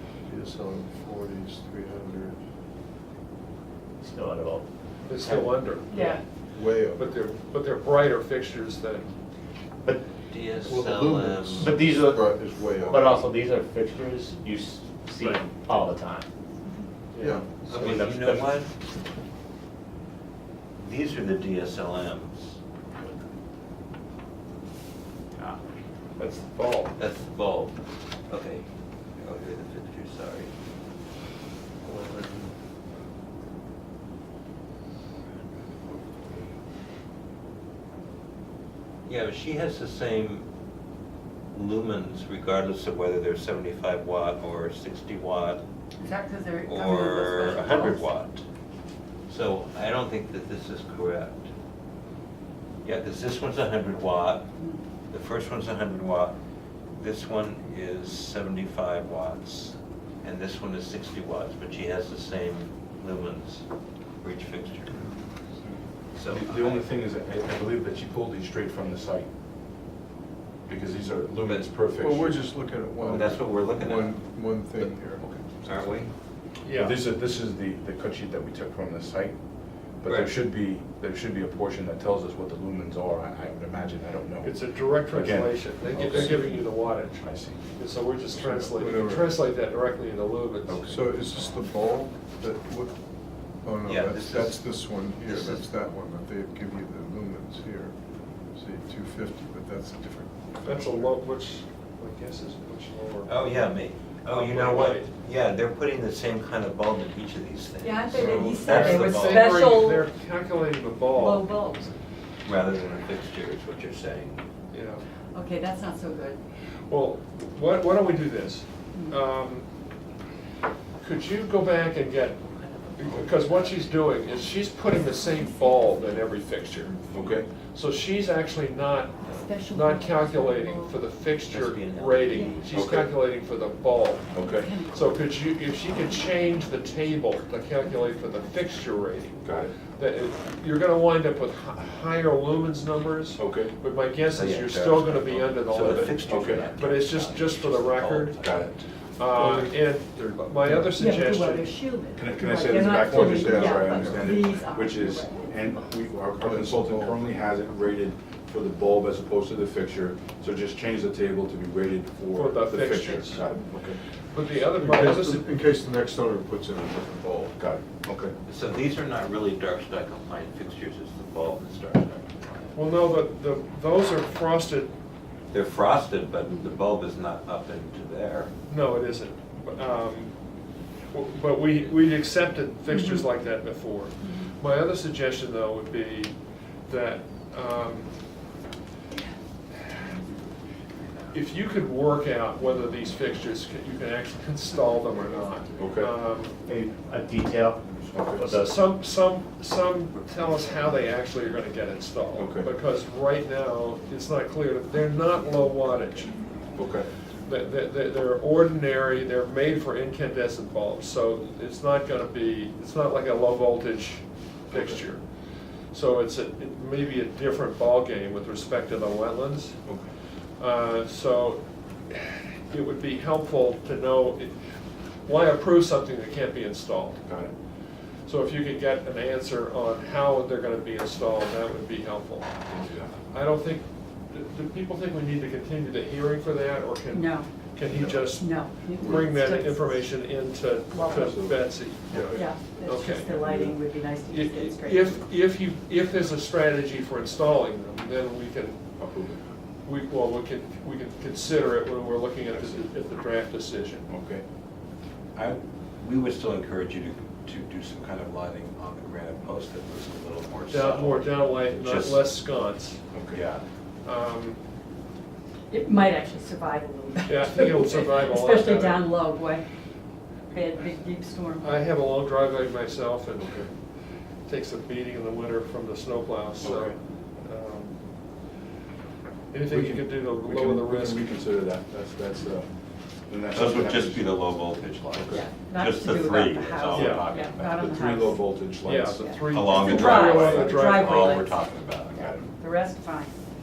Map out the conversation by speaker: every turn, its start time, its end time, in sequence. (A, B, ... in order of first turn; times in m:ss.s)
0:00.3-0:02.4 A
0:04.0-0:04.7 B
0:05.1-0:06.2 C
0:05.2-0:06.2 B
0:05.9-0:06.2 D
0:06.5-0:07.0 A
0:07.0-0:09.1 C
0:10.3-0:11.7 E
0:10.6-0:13.1 A
0:11.6-0:16.3 B
0:17.1-0:17.6 C
0:17.2-0:17.7 A
0:17.7-0:18.7 E
0:17.7-0:18.6 B
0:20.8-0:22.6 E
0:26.2-0:27.0 C
0:27.0-0:27.8 E
0:28.3-0:28.6 E
0:29.2-0:30.5 E
0:39.1-0:40.5 E
0:41.5-0:45.6 E
0:46.0-0:48.1 D
0:46.7-0:48.4 E
0:49.3-0:51.5 E
0:52.8-0:54.5 E
0:54.6-0:54.8 D
0:55.1-0:56.4 E
0:57.0-1:03.6 E
1:04.2-1:05.0 E
1:06.2-1:06.9 E
1:06.2-1:09.3 F
1:10.7-1:12.4 F
1:11.4-1:11.8 E
1:12.0-1:15.3 A
1:13.0-1:14.2 E
1:15.2-1:16.0 F
1:15.6-1:16.1 E
1:16.6-1:17.0 C
1:16.7-1:19.4 F
1:20.0-1:27.6 F
1:20.0-1:20.3 E
1:24.4-1:30.9 C
1:26.0-1:26.4 E
1:28.3-1:29.4 A
1:30.7-1:31.0 F
1:30.9-1:33.0 A
1:33.6-1:38.0 A
1:33.8-1:35.7 E
1:38.5-1:41.1 A
1:40.6-1:43.3 C
1:43.2-1:49.7 E
1:44.3-1:45.1 C
1:47.8-1:50.1 D
1:48.2-1:51.4 C
1:51.1-1:51.9 D
1:52.4-1:54.4 E
1:54.7-1:55.0 C
1:55.3-1:56.4 D
1:56.9-1:59.7 C
2:01.0-2:02.4 C
2:03.0-2:07.0 C
2:06.9-2:07.3 D
2:07.1-2:07.5 F
2:07.7-2:28.4 C
2:09.3-2:11.0 D
2:11.5-2:12.8 E
2:12.3-2:12.6 D
2:12.7-2:13.1 F
2:14.3-2:14.7 F
2:14.4-2:15.2 D
2:19.4-2:19.7 F
2:23.4-2:23.7 F
2:24.3-2:28.9 E
2:26.3-2:26.6 F
2:28.4-2:28.7 F
2:29.2-2:31.7 C
2:29.4-2:29.7 A
2:31.0-2:35.7 D
2:32.2-2:44.0 F
2:32.4-2:34.4 A
2:36.4-2:37.2 A
2:42.3-2:43.4 C
2:44.3-2:45.5 C
2:44.8-2:47.6 A
2:47.6-2:48.3 F
2:48.5-2:52.6 E
2:52.7-2:54.9 C
2:55.5-2:58.5 E
2:58.7-3:00.4 C
3:01.1-3:08.1 C
3:02.9-3:03.2 D
3:04.2-3:04.5 D
3:11.3-3:16.6 C
3:15.8-3:16.1 F
3:16.7-3:18.8 B
3:18.1-3:18.5 F
3:18.5-3:26.4 C
3:22.4-3:22.7 F
3:26.8-3:27.1 F
3:27.4-3:35.2 C
3:34.7-3:35.0 F
3:35.9-3:39.8 C
3:40.6-3:44.6 C
3:45.2-3:47.2 C
3:47.2-3:47.5 F
3:48.3-3:52.5 C
3:52.7-3:53.2 F
3:53.3-4:08.8 C
3:57.1-3:57.5 D
3:57.8-3:58.3 F
3:58.3-4:00.1 D
4:00.9-4:01.4 D
4:01.0-4:02.4 F
4:02.3-4:05.2 D
4:09.0-4:09.4 F
4:09.8-4:14.1 C
4:12.5-4:12.8 F
4:14.1-4:14.4 F
4:15.4-4:22.3 E
4:20.7-4:23.0 C
4:23.1-4:23.4 F
4:23.3-4:23.6 E
4:24.0-4:24.6 C
4:25.7-4:29.7 D
4:27.3-4:29.1 C
4:30.5-4:31.8 D
4:31.6-4:33.7 C
4:33.4-4:33.7 F
4:34.5-4:38.0 C
4:36.6-4:37.0 F
4:39.5-4:41.4 C
4:39.7-4:42.7 F
4:43.3-4:44.4 F
4:43.5-4:47.8 E
4:45.1-4:45.4 F
4:45.3-4:48.4 D
4:46.9-4:47.3 C
4:47.6-4:50.2 F
4:48.8-4:51.4 C
4:49.2-4:51.7 D
4:49.5-4:52.5 E
4:52.6-4:53.4 D